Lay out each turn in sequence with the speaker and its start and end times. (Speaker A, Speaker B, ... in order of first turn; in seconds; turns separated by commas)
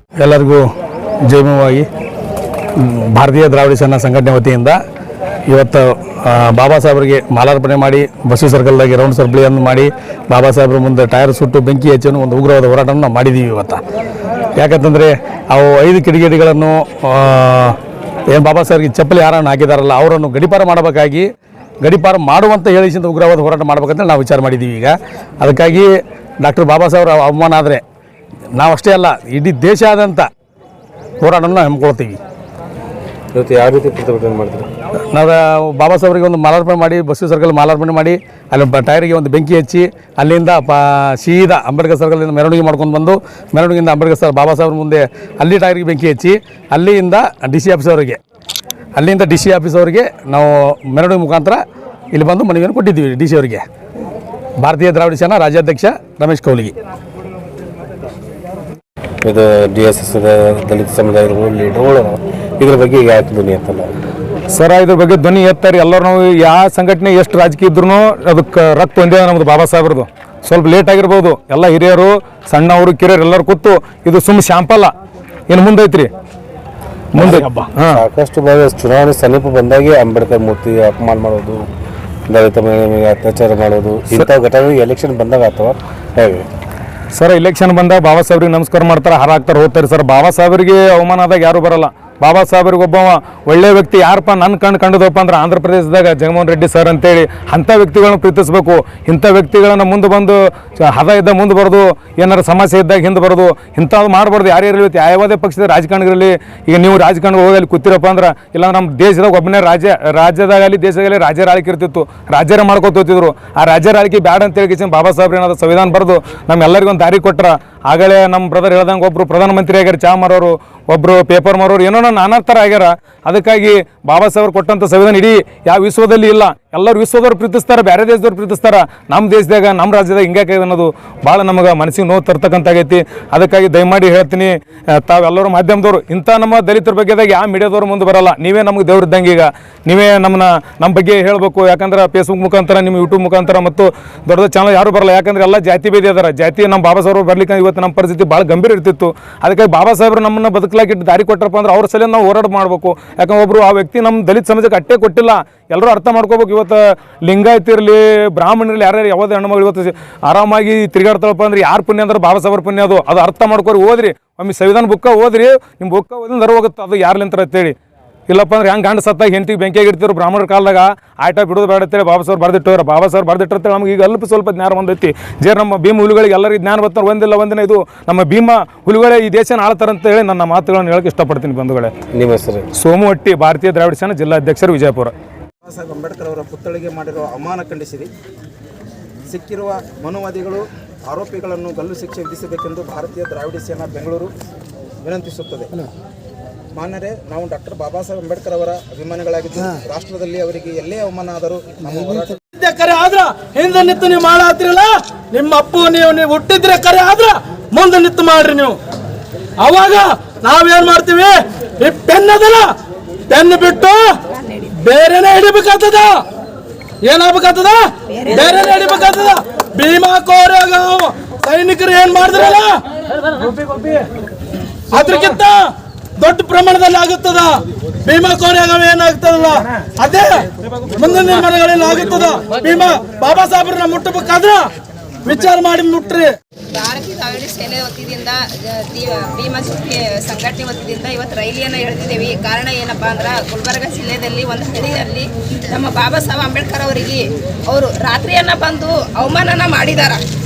Speaker A: 0.2-0.6, Speaker A: 1.3-1.9, Speaker A: 2.8-4.8, Speaker A: 5.5-13.8, Speaker A: 14.6-17.8, Speaker A: 18.3-21.2, Speaker A: 21.8-25.9, Speaker A: 26.4-27.8, Speaker A: 28.6-30.3, Speaker A: 31.2-32.2, Speaker B: 33.3-34.7, Speaker A: 35.1-48.2, Speaker A: 49.0-51.6, Speaker A: 52.1-53.6, Speaker A: 54.6-56.7, Speaker B: 59.2-63.9, Speaker C: 64.5-74.9, Speaker C: 75.5-76.1, Speaker C: 77.2-78.0, Speaker B: 77.2-81.6, Speaker B: 82.3-86.5, Speaker C: 87.1-167.7, Speaker C: 168.3-181.9, Speaker B: 182.1-182.7, Speaker C: 182.8-185.1, Speaker D: 185.6-188.1, Speaker D: 189.3-194.3, Speaker D: 195.0-195.8, Speaker D: 196.7-202.3, Speaker E: 202.5-208.8, Speaker E: 209.6-212.7, Speaker E: 213.3-214.1, Speaker E: 214.8-216.2, Speaker E: 217.0-222.8, Speaker F: 218.3-218.8, Speaker E: 224.9-234.7, Speaker E: 235.2-236.3, Speaker F: 236.7-250.2